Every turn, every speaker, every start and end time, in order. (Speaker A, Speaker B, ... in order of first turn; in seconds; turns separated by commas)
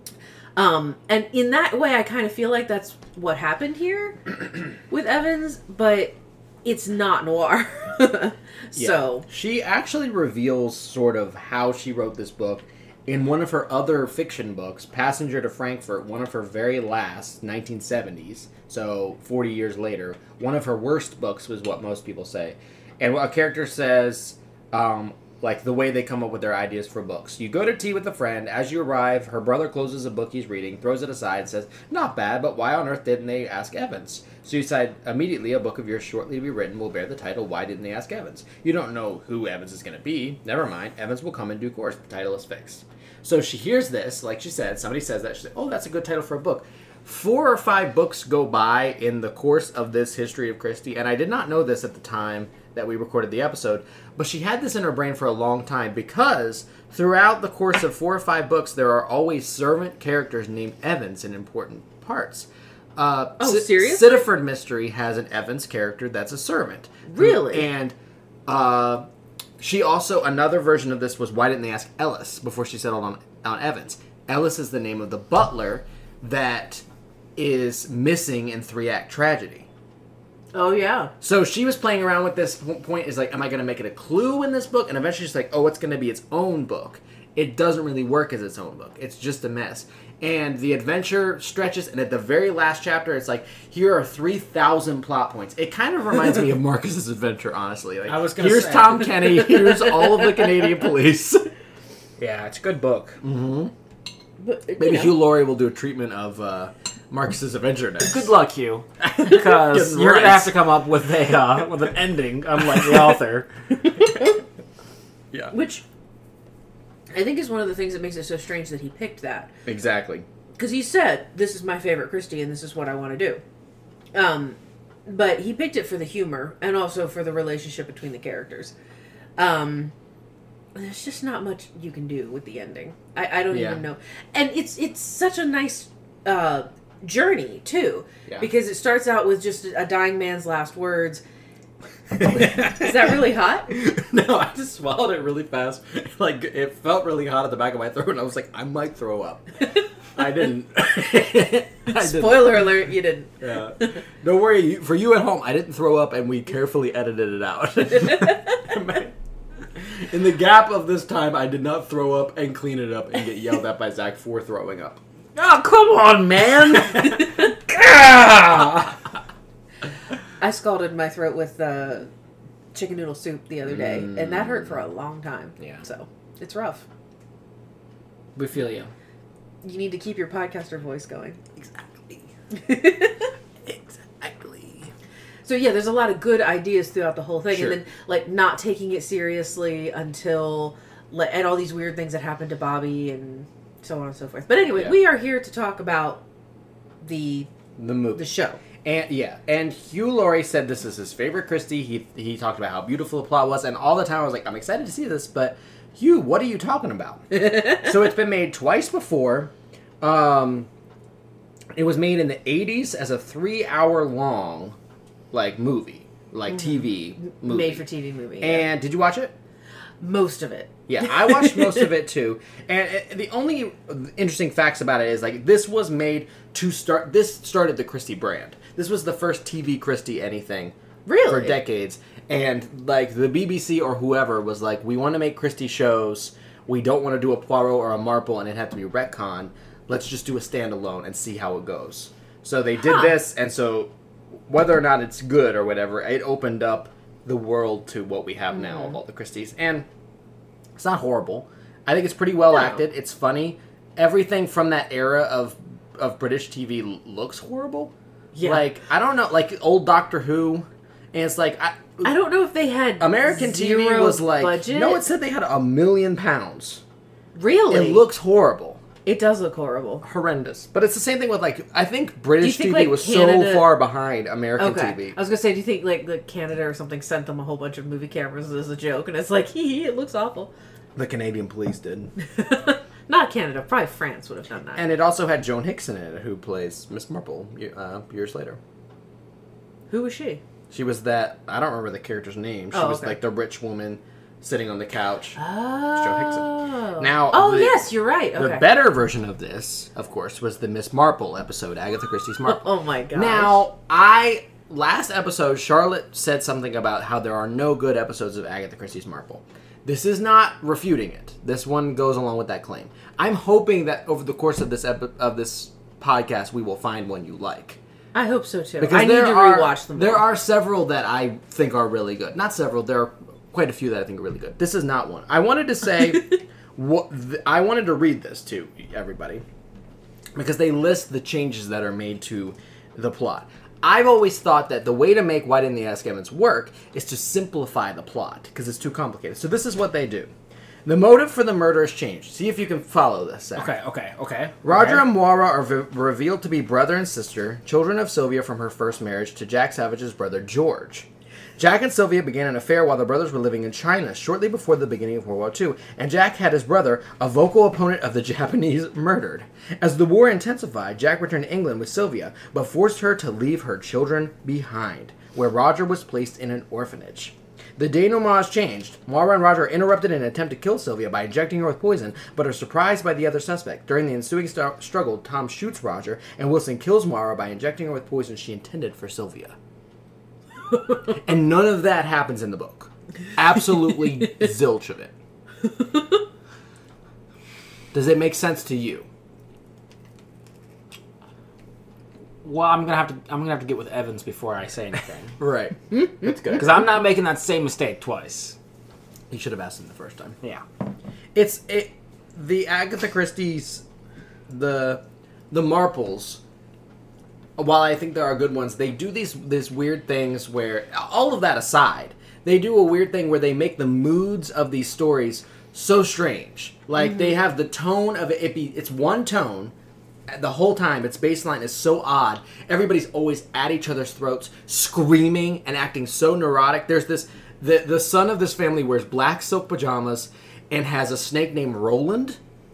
Speaker A: 0.6-9.3, Speaker B: 8.7-68.0, Speaker A: 63.4-64.1, Speaker A: 67.1-67.7, Speaker B: 68.5-69.0, Speaker B: 69.6-76.8, Speaker B: 77.4-79.7, Speaker A: 80.5-81.1, Speaker B: 81.2-101.5, Speaker C: 98.1-99.2, Speaker C: 102.2-103.2, Speaker B: 103.2-103.7, Speaker A: 104.4-105.2, Speaker B: 104.8-108.3, Speaker C: 108.0-113.5, Speaker B: 109.0-110.6, Speaker A: 115.5-115.8, Speaker A: 117.1-119.5, Speaker B: 119.7-120.3, Speaker A: 120.6-123.4, Speaker A: 124.1-128.8, Speaker A: 129.4-129.9, Speaker A: 130.8-141.2, Speaker B: 133.5-133.8, Speaker B: 142.2-143.1, Speaker A: 142.3-143.7, Speaker B: 143.7-152.8, Speaker A: 151.9-153.9, Speaker B: 153.4-159.1, Speaker A: 158.1-158.6, Speaker B: 159.8-165.0, Speaker C: 165.3-168.9, Speaker A: 170.4-172.1, Speaker A: 172.7-176.8, Speaker B: 173.7-174.7, Speaker B: 175.6-175.8, Speaker C: 178.4-178.9, Speaker A: 179.6-181.4, Speaker B: 181.6-182.3, Speaker A: 182.5-183.3, Speaker B: 183.7-184.9, Speaker A: 185.4-196.2, Speaker B: 187.5-187.8, Speaker A: 197.0-197.5, Speaker B: 197.8-198.3, Speaker A: 198.2-198.6, Speaker B: 198.8-210.7, Speaker B: 211.8-214.8, Speaker B: 215.3-217.8, Speaker A: 216.5-218.7, Speaker B: 218.4-219.3, Speaker A: 220.0-221.9, Speaker B: 220.9-230.8, Speaker A: 231.1-231.6, Speaker B: 231.3-243.9, Speaker B: 244.5-249.9, Speaker B: 250.8-262.1, Speaker A: 258.3-258.7, Speaker A: 262.0-265.0, Speaker B: 263.0-266.8, Speaker A: 267.4-268.1, Speaker B: 267.7-268.8, Speaker A: 269.1-270.0, Speaker B: 270.0-275.2, Speaker A: 272.4-273.7, Speaker A: 274.6-280.5, Speaker B: 281.0-282.1, Speaker A: 282.2-284.8, Speaker B: 284.8-288.6, Speaker A: 289.9-290.4, Speaker B: 290.7-317.8, Speaker A: 292.7-293.2, Speaker A: 295.4-298.7, Speaker A: 302.4-303.6, Speaker A: 318.1-320.3, Speaker B: 318.8-329.4, Speaker B: 330.4-340.3, Speaker B: 340.9-343.7, Speaker C: 343.6-345.0, Speaker B: 344.6-351.1, Speaker B: 351.6-379.6, Speaker B: 380.9-385.1, Speaker B: 387.9-389.1, Speaker C: 392.4-395.4, Speaker B: 395.4-396.9, Speaker C: 396.4-398.6, Speaker B: 399.3-400.4, Speaker B: 401.4-403.8, Speaker B: 404.5-406.4, Speaker B: 407.6-419.7, Speaker B: 420.3-432.4